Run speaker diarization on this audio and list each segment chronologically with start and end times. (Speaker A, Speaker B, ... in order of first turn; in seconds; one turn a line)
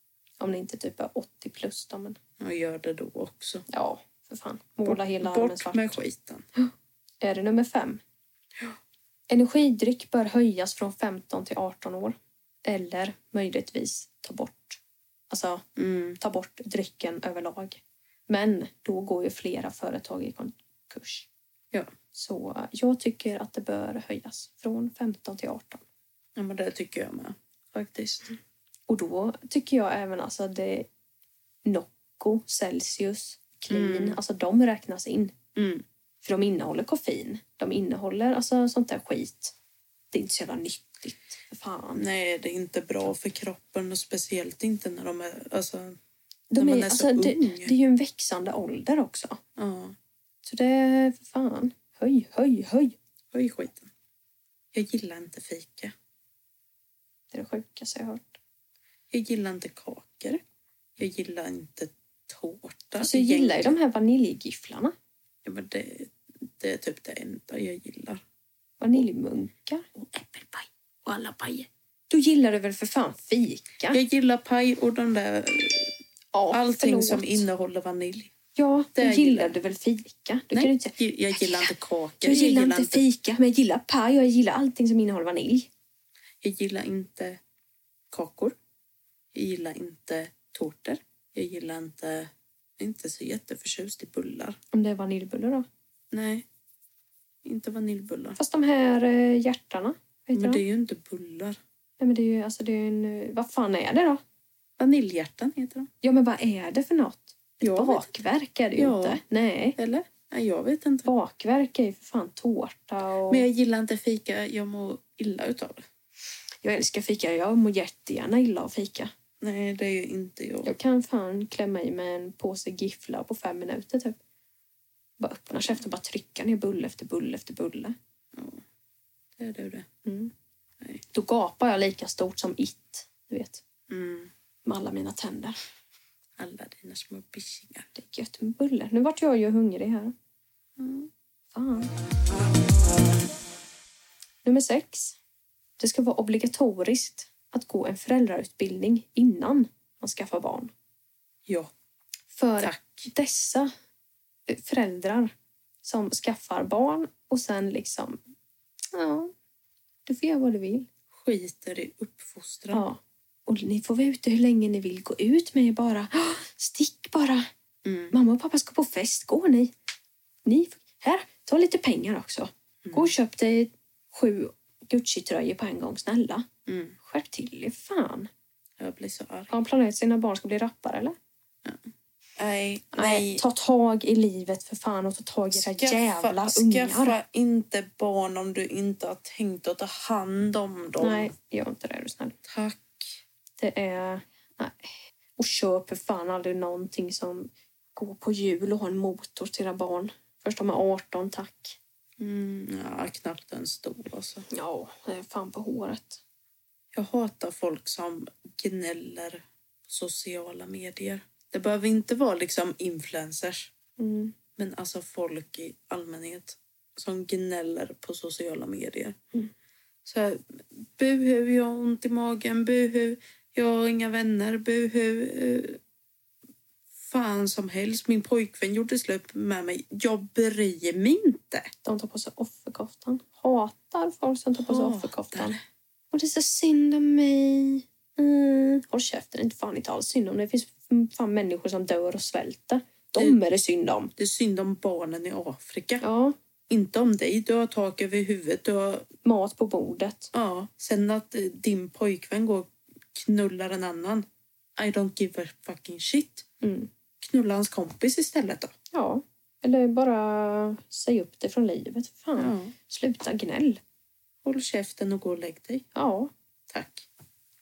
Speaker A: 0.4-2.2
Speaker B: 2.4-3.6
Speaker A: 3.7-6.0
Speaker B: 4.8-6.5
Speaker A: 6.5-8.0
Speaker A: 9.3-15.6
Speaker B: 15.8-16.2
Speaker A: 16.2-21.3
Speaker A: 22.1-25.8
Speaker B: 26.4-28.4
Speaker A: 28.9-30.9
Speaker A: 31.6-35.3
Speaker B: 33.7-34.2
Speaker B: 35.5-35.8
Speaker A: 36.2-39.5
Speaker A: 40.1-42.0
Speaker B: 41.9-46.0
Speaker A: 46.5-49.4
Speaker B: 46.6-47.7
Speaker B: 49.6-50.0
Speaker A: 50.4-52.9
Speaker B: 53.3-53.9
Speaker B: 54.7-55.9
Speaker A: 57.3-58.4
Speaker B: 59.1-60.4
Speaker B: 61.0-63.8
Speaker A: 63.0-64.9
Speaker B: 65.4-68.2
Speaker A: 68.8-69.9
Speaker B: 69.9-71.7
Speaker A: 72.1-74.0
Speaker B: 73.9-76.0
Speaker A: 76.3-77.5
Speaker B: 76.5-78.3
Speaker A: 78.5-85.7
Speaker B: 79.0-79.5
Speaker B: 80.5-83.0
Speaker B: 86.4-87.4
Speaker B: 88.1-88.5
Speaker B: 89.3-94.6
Speaker A: 94.7-95.7
Speaker B: 96.1-96.5
Speaker B: 97.4-98.4
Speaker A: 98.4-100.6
Speaker B: 100.3-101.6
Speaker A: 102.0-104.2
Speaker B: 104.8-105.9
Speaker A: 106.0-109.8
Speaker B: 107.6-108.1
Speaker B: 108.8-109.2
Speaker B: 109.8-111.1
Speaker A: 111.0-113.5
Speaker B: 113.3-115.8
Speaker A: 116.6-119.1
Speaker B: 119.4-120.7
Speaker A: 120.6-124.2
Speaker A: 125.2-127.9
Speaker B: 128.3-128.6
Speaker B: 129.4-129.9
Speaker A: 130.0-130.3
Speaker A: 131.1-133.6
Speaker B: 133.9-134.3
Speaker A: 134.6-135.6
Speaker B: 136.4-137.9
Speaker A: 137.9-140.1
Speaker B: 140.8-141.1
Speaker A: 141.5-141.9
Speaker A: 144.4-145.2
Speaker A: 145.8-150.7
Speaker B: 151.4-151.7
Speaker A: 152.3-153.7
Speaker B: 152.6-153.1
Speaker A: 154.5-158.2
Speaker A: 158.9-159.3
Speaker A: 160.1-160.9
Speaker B: 161.1-162.8
Speaker A: 162.7-167.5
Speaker B: 167.8-168.1
Speaker A: 168.1-169.7
Speaker A: 170.4-176.5
Speaker B: 172.8-173.1
Speaker B: 176.7-176.9
Speaker A: 177.0-178.3
Speaker B: 178.8-179.5
Speaker A: 179.5-181.2
Speaker B: 182.4-183.4
Speaker A: 182.9-187.2
Speaker B: 185.5-191.3
Speaker A: 191.0-192.4
Speaker B: 192.4-193.2
Speaker A: 193.6-201.8
Speaker B: 202.2-204.4
Speaker A: 204.5-206.2
Speaker B: 206.9-213.7
Speaker A: 214.0-214.3
Speaker B: 214.6-219.2
Speaker B: 220.0-225.8
Speaker B: 227.0-231.7
Speaker A: 231.8-235.6
Speaker B: 234.6-235.6
Speaker A: 236.1-244.1
Speaker B: 244.2-246.0
Speaker A: 246.0-246.3
Speaker B: 246.7-249.1
Speaker A: 249.2-250.3
Speaker B: 250.3-254.2
Speaker B: 254.8-256.4
Speaker A: 256.6-256.9
Speaker B: 257.2-258.7
Speaker A: 258.9-263.8
Speaker B: 262.4-262.7
Speaker B: 264.4-265.9
Speaker A: 265.9-266.3
Speaker B: 266.7-267.1